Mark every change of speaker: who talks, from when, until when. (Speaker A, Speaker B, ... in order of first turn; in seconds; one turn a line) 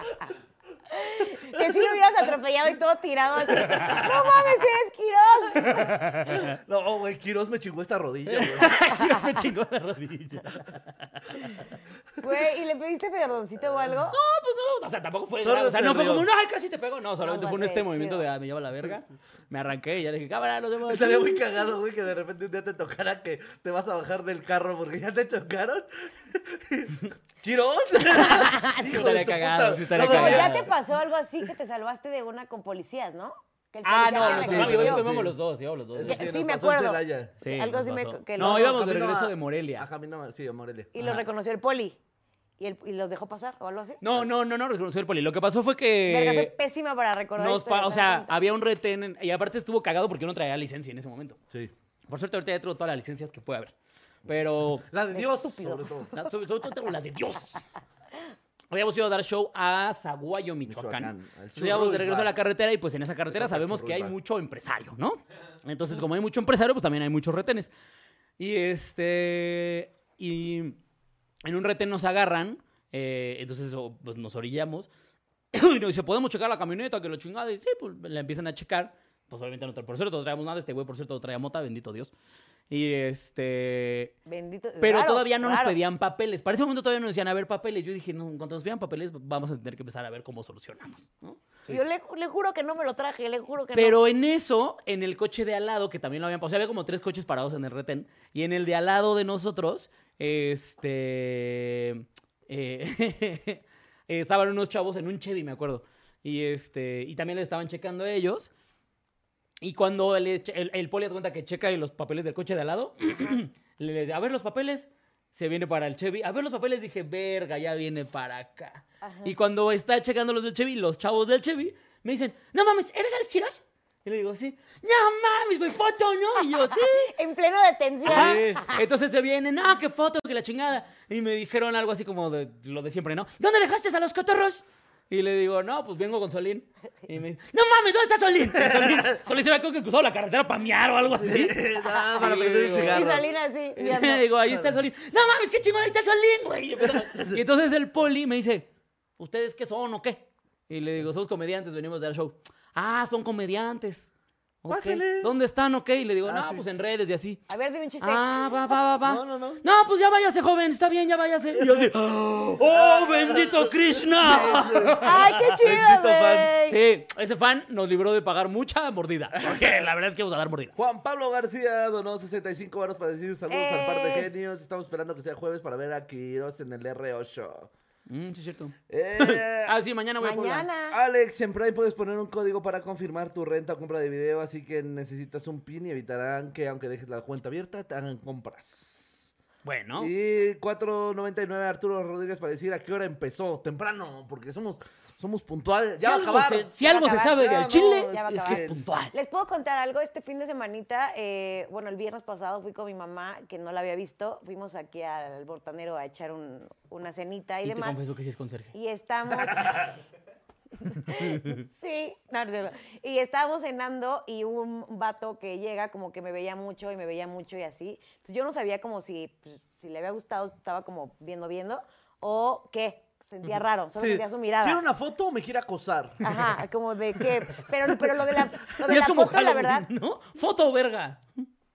Speaker A: 0.9-6.0
Speaker B: 3.7-4.2
Speaker C: 6.0-6.5
Speaker B: 6.1-8.8
Speaker C: 8.3-11.6
Speaker A: 12.2-14.2
Speaker C: 14.1-21.4
Speaker B: 15.4-16.3
Speaker A: 17.2-18.2
Speaker B: 20.9-30.7
Speaker A: 28.1-29.1
Speaker C: 28.8-30.7
Speaker A: 30.0-35.1
Speaker C: 33.8-36.2
Speaker B: 34.1-35.4
Speaker B: 35.9-37.4
Speaker A: 36.0-38.8
Speaker C: 37.4-39.9
Speaker B: 38.5-40.9
Speaker A: 40.9-42.0
Speaker C: 41.0-41.2
Speaker A: 42.6-44.0
Speaker C: 44.0-46.5
Speaker A: 46.1-48.4
Speaker C: 47.4-51.4
Speaker C: 52.1-53.7
Speaker C: 54.3-54.9
Speaker B: 54.8-56.1
Speaker A: 55.1-55.9
Speaker C: 56.1-57.7
Speaker C: 58.7-67.7
Speaker B: 60.7-62.3
Speaker B: 63.3-64.2
Speaker C: 68.4-70.8
Speaker C: 71.5-74.9
Speaker C: 75.5-82.1
Speaker C: 82.7-84.1
Speaker A: 84.3-85.8
Speaker C: 84.8-91.2
Speaker A: 91.7-94.0
Speaker C: 93.8-108.5
Speaker C: 109.6-127.1
Speaker A: 119.0-119.3
Speaker A: 126.7-128.8
Speaker C: 128.1-143.2
Speaker B: 128.1-128.7
Speaker B: 138.6-139.2
Speaker B: 141.1-143.3
Speaker A: 142.9-144.3
Speaker C: 143.8-154.1
Speaker B: 144.5-144.7
Speaker B: 146.8-147.4
Speaker C: 154.6-157.4
Speaker B: 154.7-155.4
Speaker B: 156.2-156.7
Speaker A: 157.5-158.8
Speaker C: 158.0-165.7
Speaker B: 159.0-159.6
Speaker B: 161.6-161.9
Speaker B: 162.5-166.5
Speaker A: 165.0-166.8
Speaker C: 166.7-170.8
Speaker B: 169.4-169.7
Speaker B: 170.8-177.7
Speaker A: 173.5-174.3
Speaker C: 178.1-180.7
Speaker B: 178.9-179.8
Speaker A: 180.2-181.0
Speaker B: 180.9-189.3
Speaker C: 189.6-190.1
Speaker B: 190.0-196.8
Speaker C: 196.0-199.1
Speaker A: 196.7-208.0
Speaker B: 197.3-198.8
Speaker C: 207.6-208.7
Speaker A: 208.7-209.8
Speaker A: 210.8-224.8
Speaker C: 211.1-211.6
Speaker B: 223.9-226.4
Speaker A: 226.2-229.9
Speaker C: 228.3-231.2